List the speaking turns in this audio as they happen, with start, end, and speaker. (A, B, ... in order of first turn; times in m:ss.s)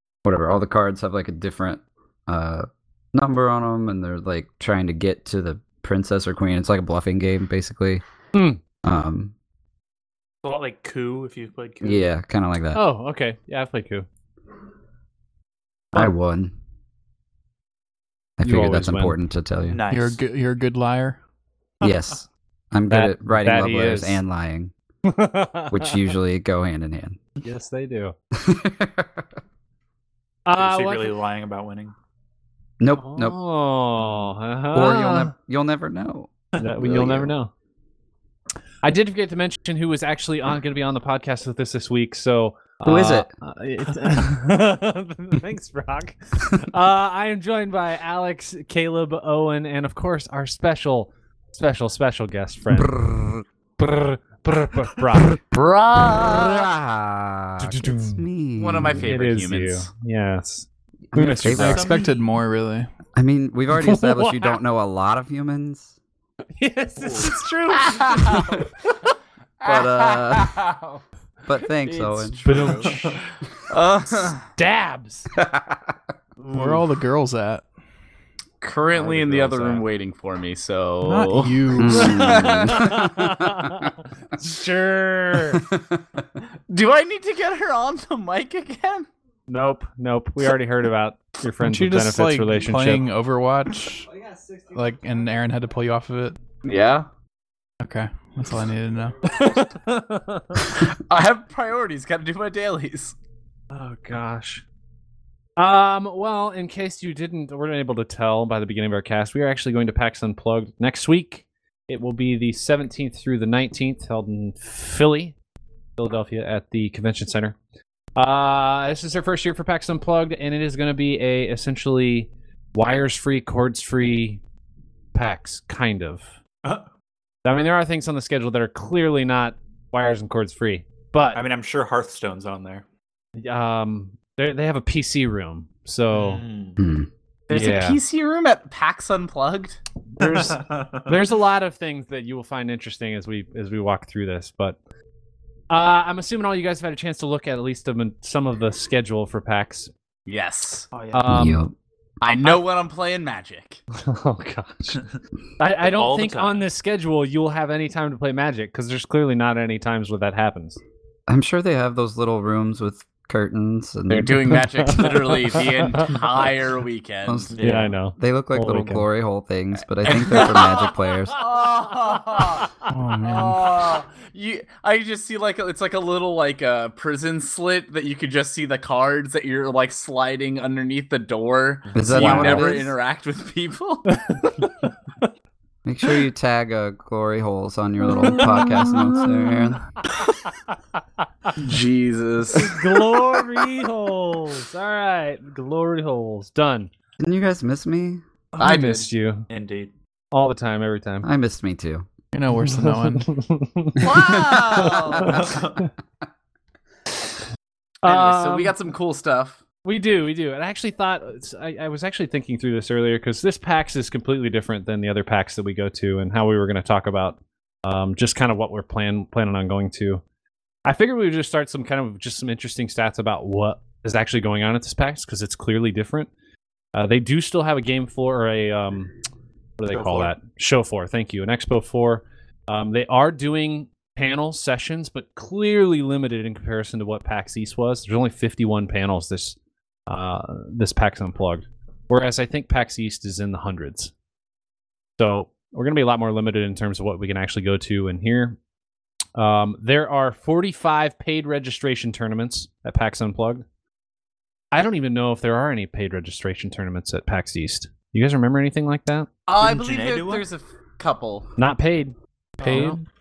0:00.2-0:08.0 A
0:08.3-0:08.6 B
0:08.8-0:09.3 A
0:10.4-0:12.0 C
0:11.8-0:12.8 A
0:12.7-0:14.1 B
0:15.9-0:16.5 A
0:18.4-0:19.8 A
0:18.4-0:19.2 B
0:19.7-0:20.2 C
0:19.9-0:21.2 D
0:21.8-0:24.7 A
0:22.9-0:24.2 B
0:25.0-0:26.0 B
0:25.7-0:27.2 A
0:27.4-0:28.1 B
0:28.3-0:29.2 A
0:30.4-0:31.1 B
0:30.6-0:31.9 C
0:32.8-0:33.4 A
0:32.9-0:35.3 B
0:34.7-0:37.3 A
0:36.6-0:37.5 B
0:38.8-0:53.0 B
0:42.8-0:43.3 A
0:52.7-0:53.4 A
0:53.8-0:55.4 B
0:55.5-0:56.7 E
0:56.1-0:59.1 A
0:57.6-0:58.2 B
0:58.6-0:59.9 E
0:59.0-1:01.9 B
1:01.1-1:01.9 A
1:01.5-1:02.1 C
1:01.6-1:02.9 D
1:03.1-1:05.9 A
1:03.7-1:04.6 B
1:06.5-1:08.6 B
1:07.0-1:07.4 C
1:07.8-1:08.6 E
1:09.6-1:11.0 E
1:09.6-1:10.5 A
1:11.4-1:12.8 A
1:12.4-1:13.2 B
1:12.5-1:13.2 C
1:13.7-1:14.5 E
1:14.5-1:15.3 B
1:16.5-1:17.6 D
1:16.6-1:16.8 E
1:18.6-1:23.0 E
1:18.9-1:19.8 B
1:21.0-1:22.3 D
1:21.7-1:23.3 A
1:22.0-1:25.7 B
1:25.5-1:25.9 A
1:26.7-1:29.1 E
1:29.5-1:33.0 B
1:31.6-1:34.1 D
1:34.7-1:36.4 D
1:36.6-1:37.1 E
1:37.8-1:39.2 D
1:39.3-1:40.7 B
1:40.7-1:43.1 E
1:43.7-1:44.6 B
1:45.6-1:55.3 B
1:56.0-1:57.6 B
1:58.2-2:04.4 B
2:05.1-2:06.3 B
2:07.4-2:11.4 B
2:11.3-2:12.8 C
2:13.4-2:16.4 B
2:16.1-2:16.9 C
2:16.8-2:17.1 A
2:17.5-2:19.8 E
2:17.5-2:18.0 B
2:20.2-2:24.8 B
2:20.2-2:21.2 C
2:25.7-2:29.9 B
2:30.3-2:30.9 E
2:30.9-2:31.3 C
2:31.1-2:31.6 B
2:31.3-2:31.7 A
2:32.2-2:33.8 E
2:33.9-2:35.0 B
2:35.6-2:40.8 B
2:35.8-2:36.6 C
2:41.3-2:44.7 A
2:44.1-2:47.5 E
2:44.8-2:46.1 B
2:47.2-2:47.5 A
2:47.6-2:49.0 B
2:47.6-2:47.9 C
2:48.1-2:51.4 A
2:50.1-2:50.8 B
2:50.2-2:50.6 E
2:51.3-2:52.7 E
2:52.3-2:52.8 B
2:52.9-2:53.7 D
2:53.2-3:04.2 E
3:01.9-3:02.9 A
3:02.0-3:02.8 B
3:04.1-3:05.3 B
3:05.8-3:09.8 A
3:08.0-3:09.7 B
3:10.6-3:11.5 B
3:11.6-3:12.8 E
3:12.5-3:16.9 B
3:17.2-3:18.2 A
3:18.5-3:19.5 B
3:18.6-3:19.1 E
3:19.5-3:19.9 C
3:20.3-3:21.3 B
3:21.2-3:22.1 A
3:22.3-3:23.3 D
3:22.5-3:24.3 B
3:24.0-3:25.4 E
3:24.3-3:25.4 A
3:25.1-3:25.9 B
3:25.2-3:25.8 C
3:28.0-3:28.7 B
3:28.0-3:29.6 E
3:29.8-3:40.2 B
3:40.8-3:46.3 B
3:46.9-3:49.1 B
3:49.8-3:59.6 B
3:49.9-3:50.3 C
4:00.1-4:04.1 B
4:05.2-4:08.6 B
4:09.4-4:13.6 B
4:14.7-4:19.3 B
4:19.5-4:21.5 E
4:19.6-4:20.4 C
4:21.6-4:23.0 B
4:22.6-4:23.0 D